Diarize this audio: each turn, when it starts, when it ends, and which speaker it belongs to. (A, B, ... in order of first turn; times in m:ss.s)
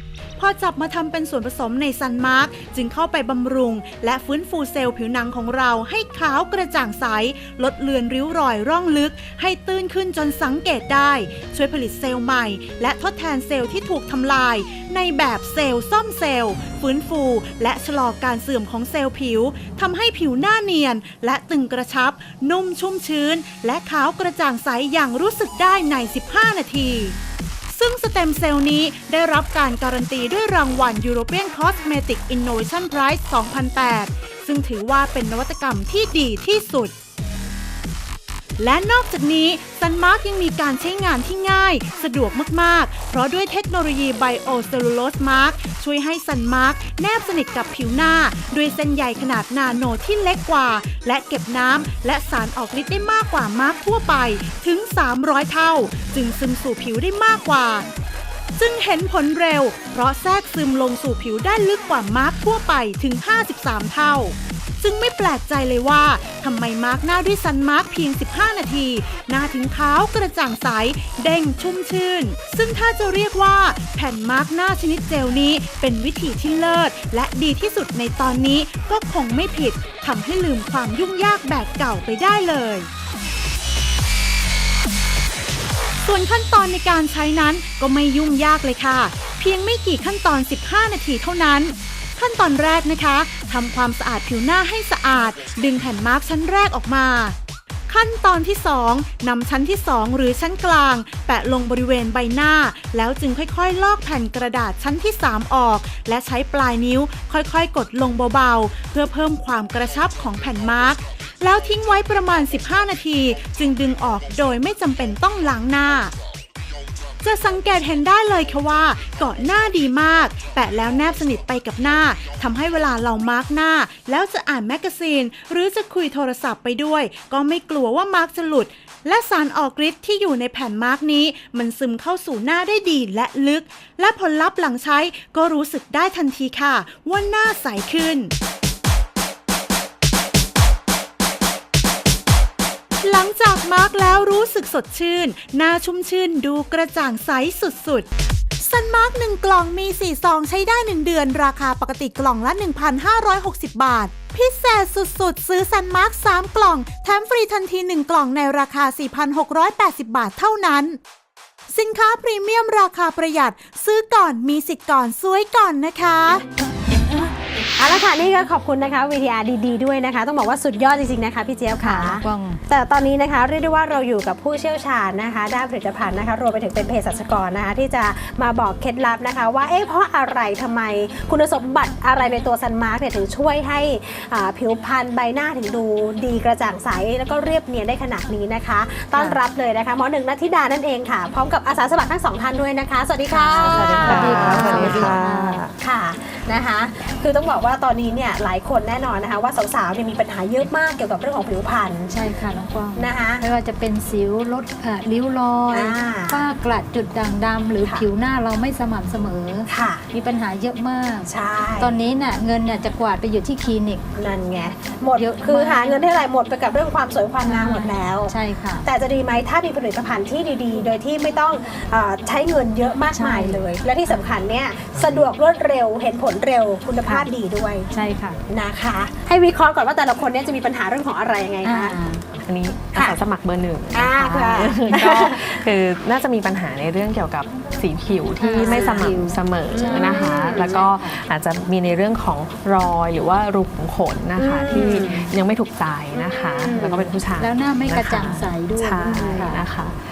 0:00.4-0:27.2 A
0:27.7-0:36.9 A
0:38.6-0:57.8 A
0:58.6-1:22.9 A
1:26.0-1:37.4 A
1:37.9-1:56.1 A
1:57.2-2:18.3 A
2:23.0-2:28.1 A
2:28.6-2:41.0 A
2:41.7-2:46.4 A
2:47.8-3:15.2 B
2:51.7-2:52.6 C
3:13.3-3:15.6 C
3:13.5-3:15.7 D
3:15.8-3:22.1 B
3:22.1-3:34.0 C
3:23.0-3:23.4 B
3:25.7-3:26.4 B
3:29.7-3:30.0 B
3:31.3-3:31.9 B
3:34.2-3:47.9 B
3:35.2-3:36.0 C
3:37.4-3:38.9 C
3:43.1-3:43.6 C
3:47.0-3:47.3 C
3:47.9-3:48.4 C
3:48.5-3:52.0 B
3:51.6-3:52.2 C
3:52.4-4:10.0 D
3:53.9-3:55.4 B
3:58.4-4:01.2 C
3:58.6-3:59.1 B
3:59.7-4:00.8 B
4:04.4-4:05.3 B
4:06.1-4:07.1 B
4:07.4-4:09.6 C